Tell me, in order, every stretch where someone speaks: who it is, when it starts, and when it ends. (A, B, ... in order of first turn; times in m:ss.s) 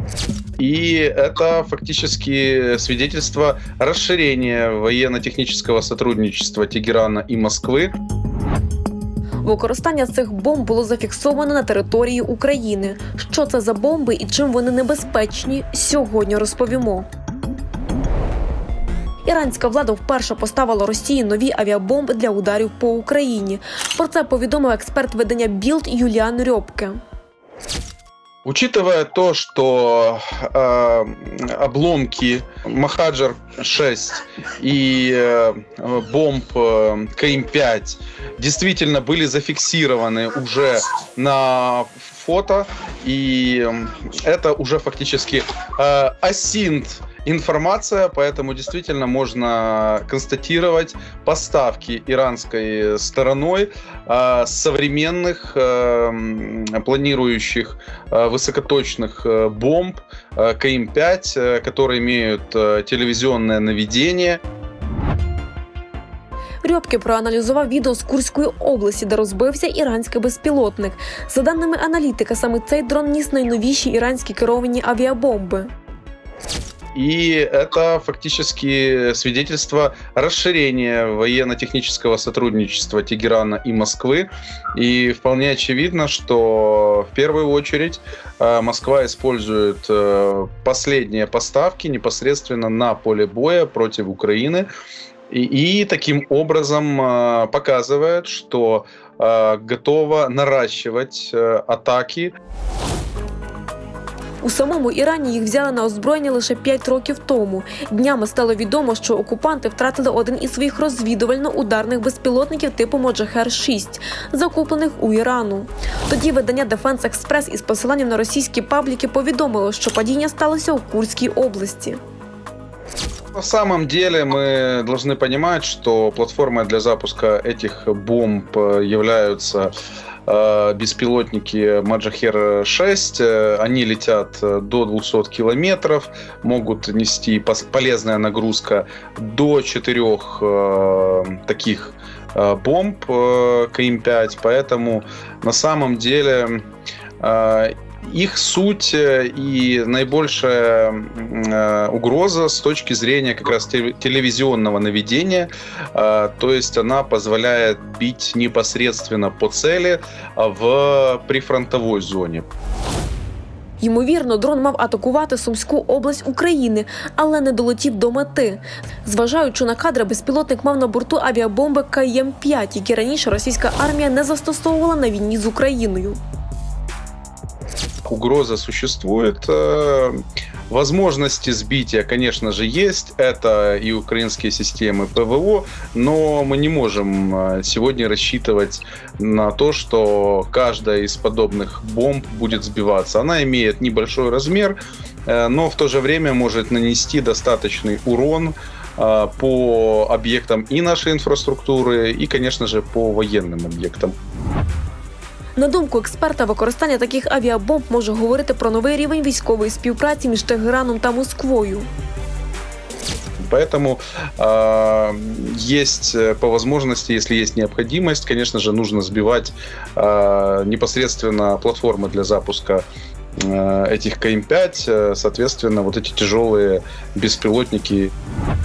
0:00.6-0:07.9 A
0:09.4-0:17.1 B
0:19.2-0:27.0 B
0:28.4-1:04.4 A
1:06.6-1:15.7 B
1:16.9-1:34.7 A
1:35.3-1:42.3 A
1:44.4-2:02.0 B
2:03.3-2:09.7 A
2:10.3-2:26.6 A
2:27.2-2:42.4 A
2:43.8-2:56.2 B
2:58.0-3:24.1 A
3:25.6-3:31.9 B
3:33.4-3:42.8 A
3:43.4-3:48.1 A